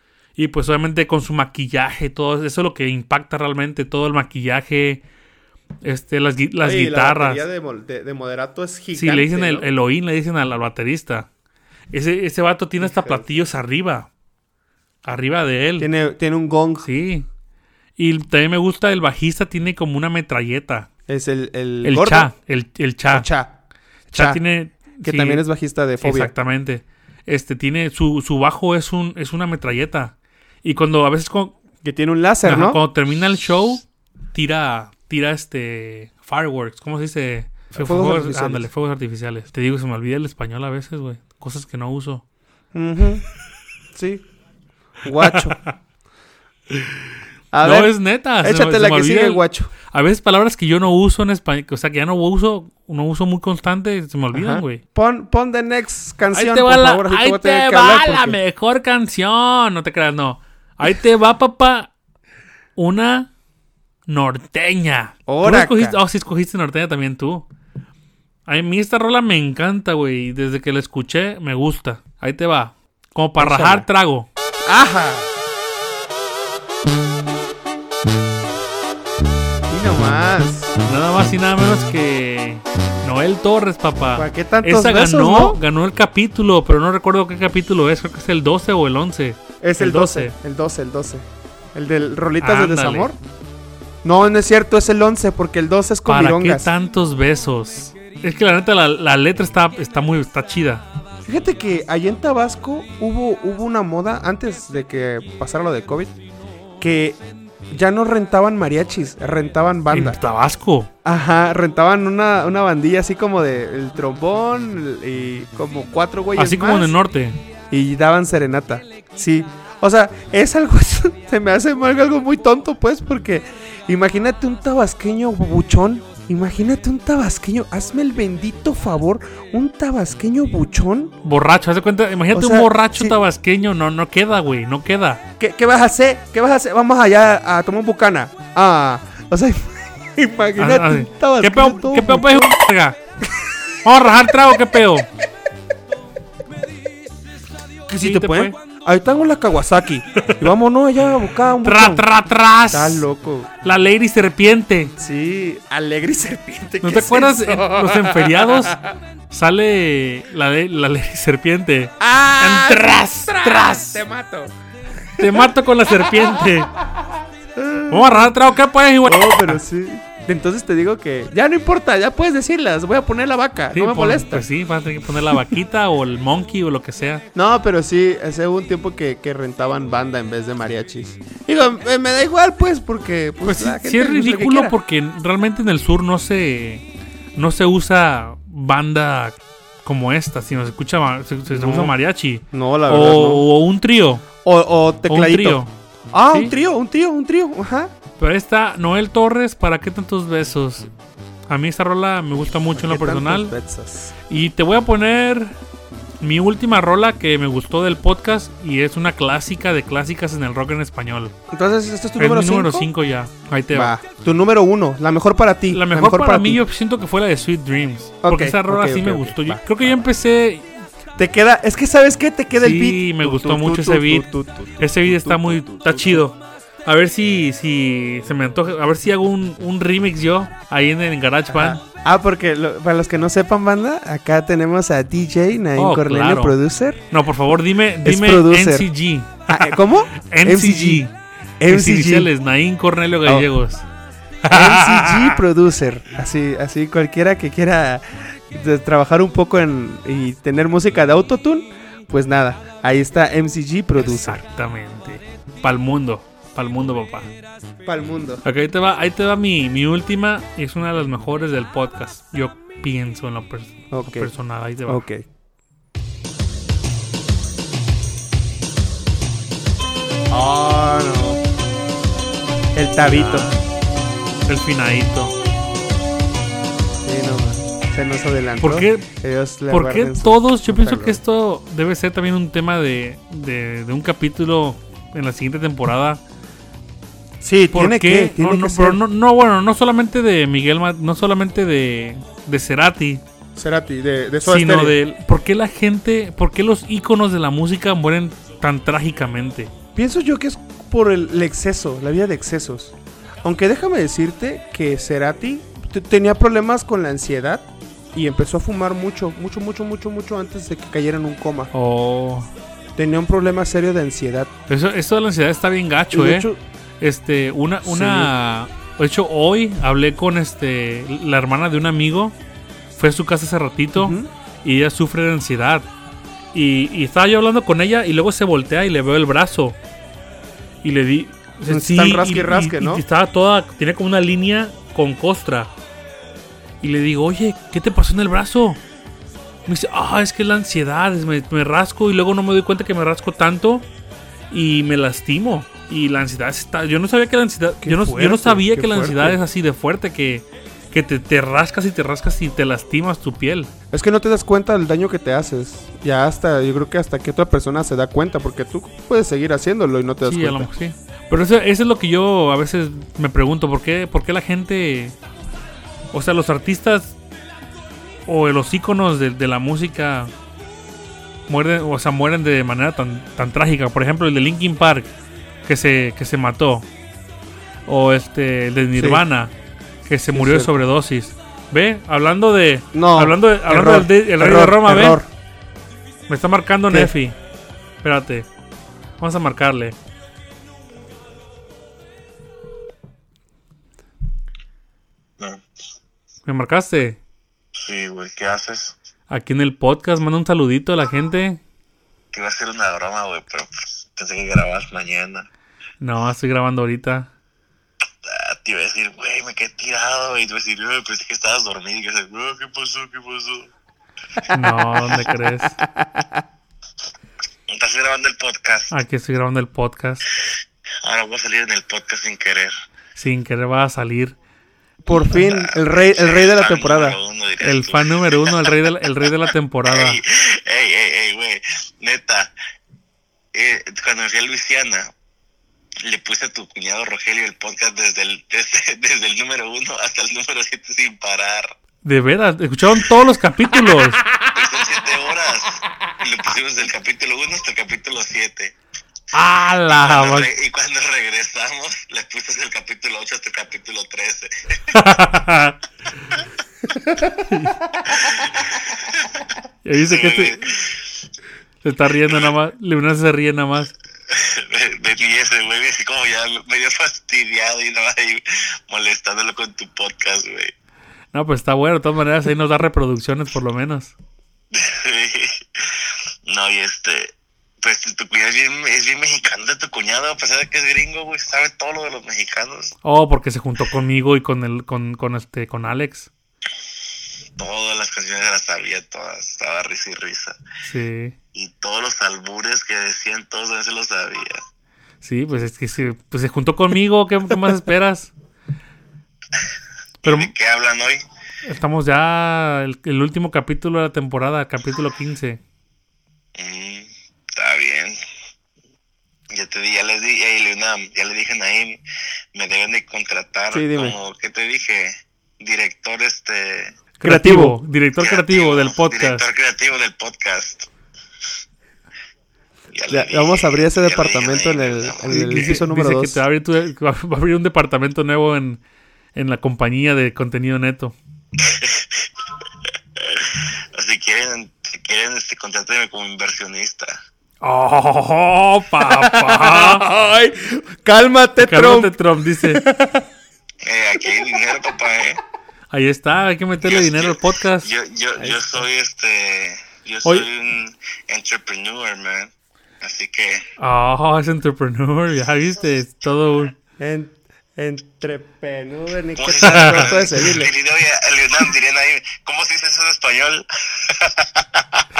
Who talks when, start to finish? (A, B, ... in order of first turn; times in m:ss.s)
0:00.4-0:05.0 A
0:05.8-0:07.4 A
0:06.6-0:09.7 B
0:08.9-0:11.3 A
0:11.9-0:14.1 A
0:12.8-0:13.3 B
0:15.0-0:15.9 A
0:15.8-0:16.9 B
0:16.8-0:17.3 A
0:18.0-0:20.9 A
0:21.1-0:22.3 B
0:21.8-0:23.3 A
0:23.1-0:23.6 B
0:24.1-0:24.4 B
0:24.1-0:25.4 A
0:24.9-0:26.3 B
0:26.0-0:31.6 A
0:31.8-0:32.8 B
0:32.4-0:42.2 A
0:37.7-0:38.7 B
0:42.7-0:43.2 B
0:43.9-0:44.2 B
0:45.0-0:45.6 B
0:47.5-0:49.7 B
0:47.6-0:54.8 A
0:54.3-0:58.4 B
0:56.3-1:01.9 A
1:02.8-1:03.3 A
1:04.1-1:07.4 A
1:05.3-1:06.0 B
1:08.5-1:14.3 A
1:13.4-1:13.9 B
1:14.6-1:15.3 B
1:19.7-1:20.7 B
1:20.8-1:30.3 A
1:24.1-1:25.6 B
1:29.6-1:33.2 B
1:32.4-1:33.1 A
1:34.0-1:36.7 B
1:36.1-1:40.8 A
1:41.2-1:46.2 B
1:46.8-1:47.2 B
1:47.7-1:50.2 B
1:49.9-1:50.9 A
1:51.0-1:56.9 B
1:56.4-1:57.4 A
1:57.7-2:11.1 B
2:11.2-2:15.2 A
2:12.3-2:13.2 B
2:15.4-2:22.6 B
2:20.6-2:23.0 A
2:23.8-2:25.1 A
2:27.9-2:32.0 B
2:28.0-2:28.6 A
2:30.2-2:30.4 A
2:31.6-2:33.0 A
2:32.7-2:33.5 B
2:33.6-2:34.9 A
2:35.0-2:38.9 B
2:36.8-2:38.8 A
2:39.3-2:44.0 A
2:42.0-2:46.5 B
2:45.2-2:46.7 A
2:47.5-2:48.3 B
2:47.9-2:49.6 A
2:49.0-2:54.5 B
2:53.7-2:57.2 A
2:57.3-3:04.7 B
3:03.4-3:14.2 A
3:11.5-3:11.9 B
3:12.5-3:13.4 B
3:14.4-3:15.6 B
3:15.1-3:15.7 A
3:16.1-3:17.9 B
3:18.2-3:20.9 A
3:21.5-3:23.5 A
3:22.7-3:24.1 B
3:24.3-3:25.5 A
3:26.2-3:31.3 A
3:31.5-3:32.9 B
3:32.2-3:33.9 A
3:33.7-3:36.6 B
3:35.7-3:40.7 A
3:38.2-3:39.6 B
3:41.2-3:46.2 B
3:42.6-3:44.2 A
3:44.8-3:51.8 A
3:51.5-3:57.0 B
3:55.8-3:56.6 A
3:57.1-4:01.1 A
3:58.0-3:58.9 B
3:59.5-4:01.0 B
4:01.6-4:02.3 B
4:01.7-4:03.9 A
4:04.4-4:05.4 A
4:04.5-4:14.4 B
4:14.0-4:17.3 A
4:17.8-4:18.4 B
4:18.4-4:25.0 A
4:23.9-4:24.3 B
4:24.9-4:25.2 B
4:30.3-4:31.4 B
4:32.7-4:33.5 B
4:33.0-4:33.6 A
4:34.5-4:35.3 A
4:37.0-4:41.2 B
4:38.6-4:39.1 A
4:39.7-4:46.2 A
4:47.4-4:49.0 B
4:47.7-4:53.2 A
4:53.5-4:55.0 B
4:54.4-4:59.7 A
4:59.9-5:11.7 B
5:11.7-5:12.5 A
5:13.0-5:14.5 B
5:14.7-5:16.5 A
5:16.1-5:16.6 B
5:17.0-5:22.4 A
5:17.8-5:18.3 B
5:23.0-5:25.9 A
5:24.0-5:24.3 B
5:26.5-5:29.8 A
5:30.8-5:35.7 A
5:31.7-5:33.0 B
5:36.8-5:38.8 A
5:39.6-5:43.9 A
5:44.5-5:53.7 A
5:47.8-5:49.4 B
5:53.9-6:00.7 B
6:00.2-6:05.1 A
6:06.1-6:07.2 A
6:08.2-6:10.3 A
6:11.5-6:15.1 A
6:15.6-6:16.9 A
6:17.8-6:19.5 A
6:19.0-6:19.2 B
6:20.0-6:25.2 A
6:20.3-6:20.7 B
6:22.9-6:25.3 B
6:26.3-6:27.4 A
6:28.0-6:28.5 A
6:29.2-6:30.0 A
6:36.4-6:37.2 A
6:37.7-6:39.0 C
6:39.3-6:41.6 A
6:42.3-6:45.5 C
6:46.0-6:47.3 A
6:48.2-6:53.7 C
6:54.5-6:55.8 A
6:55.8-6:56.4 B
6:57.7-6:58.9 C
6:58.9-7:00.2 A
7:01.0-7:02.7 C
7:03.1-7:04.3 A
7:05.0-7:07.2 B
7:05.1-7:09.3 C
7:07.6-7:10.2 A
7:09.8-7:12.5 C
7:13.5-7:15.1 C
7:16.0-7:21.7 C
7:22.0-7:24.2 A
7:24.5-7:28.7 C
7:29.3-7:30.5 A
7:29.9-7:35.0 C
7:34.9-7:35.8 A
7:37.3-7:37.8 A
7:38.0-7:39.4 C
7:39.8-7:40.6 A
7:40.0-7:41.1 C
7:41.8-7:43.9 A
7:44.3-7:50.7 C
7:51.3-7:54.1 A
7:54.7-8:02.9 C
8:03.0-8:06.3 A
8:07.6-8:10.6 C
8:10.8-8:11.3 A
8:11.5-8:14.6 C
8:15.2-8:18.3 A
8:20.2-8:21.2 C
8:20.2-8:20.5 A
8:21.6-8:25.6 A
8:26.6-8:28.2 C
8:29.5-8:32.0 C
8:32.5-8:37.0 C
8:33.7-8:34.2 B
8:37.2-8:39.4 A
8:37.2-8:37.8 B
8:38.2-8:40.9 C
8:42.9-8:45.7 C
8:43.1-8:46.4 B
8:45.3-8:48.8 A
8:49.3-8:51.1 A
8:51.6-8:52.3 C
8:53.2-8:57.2 C
8:57.6-9:00.0 A
8:59.0-9:03.2 B
9:01.6-9:02.8 A
9:03.8-9:05.4 C
9:05.9-9:07.9 A
9:06.8-9:13.7 C
9:08.4-9:08.8 B
9:13.8-9:16.7 A
9:17.0-9:20.7 B
9:19.4-9:25.0 C
9:19.6-9:20.1 A